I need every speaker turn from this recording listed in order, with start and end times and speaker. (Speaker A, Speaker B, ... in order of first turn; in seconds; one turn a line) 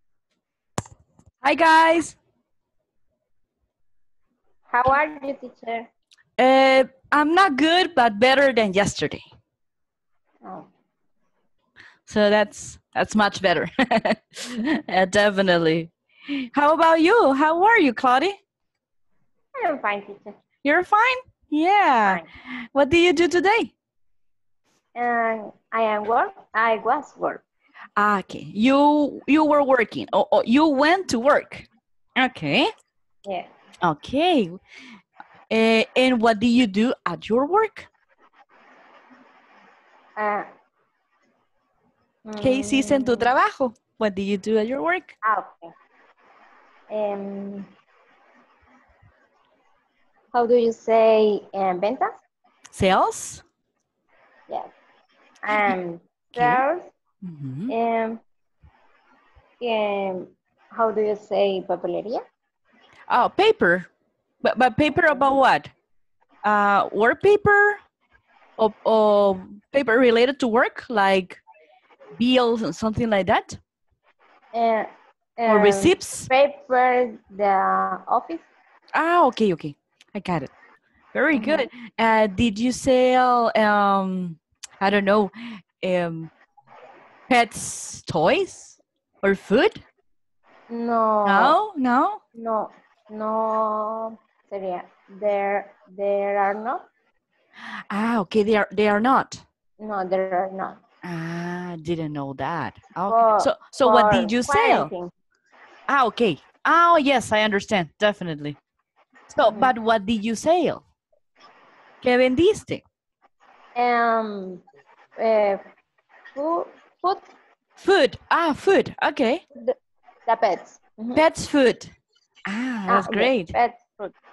Speaker A: 1.4-2.2
Speaker B: 4.7-5.9
Speaker A: 6.4-9.2
Speaker B: 10.4-10.7
Speaker A: 12.1-15.9
Speaker A: 16.5-18.4
Speaker B: 19.6-20.4
Speaker A: 20.6-22.2
Speaker A: 22.8-23.7
Speaker B: 25.0-27.4
Speaker A: 28.0-31.7
Speaker A: 32.2-32.7
Speaker A: 33.8-34.6
Speaker A: 35.5-37.9
Speaker B: 40.2-40.5
Speaker B: 42.3-43.3
Speaker A: 42.4-45.2
Speaker B: 45.2-45.7
Speaker B: 46.9-47.7
Speaker B: 50.3-52.1
Speaker A: 52.7-53.4
Speaker B: 55.4-56.9
Speaker A: 56.4-56.6
Speaker A: 57.2-57.7
Speaker B: 57.7-58.2
Speaker B: 59.6-62.2
Speaker A: 63.1-63.9
Speaker A: 64.4-65.7
Speaker A: 66.5-67.8
Speaker A: 68.6-71.4
Speaker A: 72.2-73.6
Speaker B: 74.5-78.5
Speaker A: 75.5-76.3
Speaker A: 79.0-80.5
Speaker A: 81.1-86.3
Speaker B: 81.3-81.7
Speaker A: 87.3-89.8
Speaker B: 90.7-91.6
Speaker A: 91.2-92.2
Speaker B: 92.3-96.9
Speaker A: 97.9-99.4
Speaker B: 99.8-100.8
Speaker A: 101.0-104.9
Speaker B: 103.1-105.1
Speaker A: 105.9-108.6
Speaker A: 109.3-110.8
Speaker B: 109.5-109.7
Speaker A: 112.0-112.8
Speaker B: 113.8-114.6
Speaker B: 115.2-115.6
Speaker B: 116.3-117.3
Speaker A: 117.8-119.4
Speaker B: 120.3-121.2
Speaker A: 121.2-121.9
Speaker A: 122.5-123.5
Speaker B: 122.9-124.1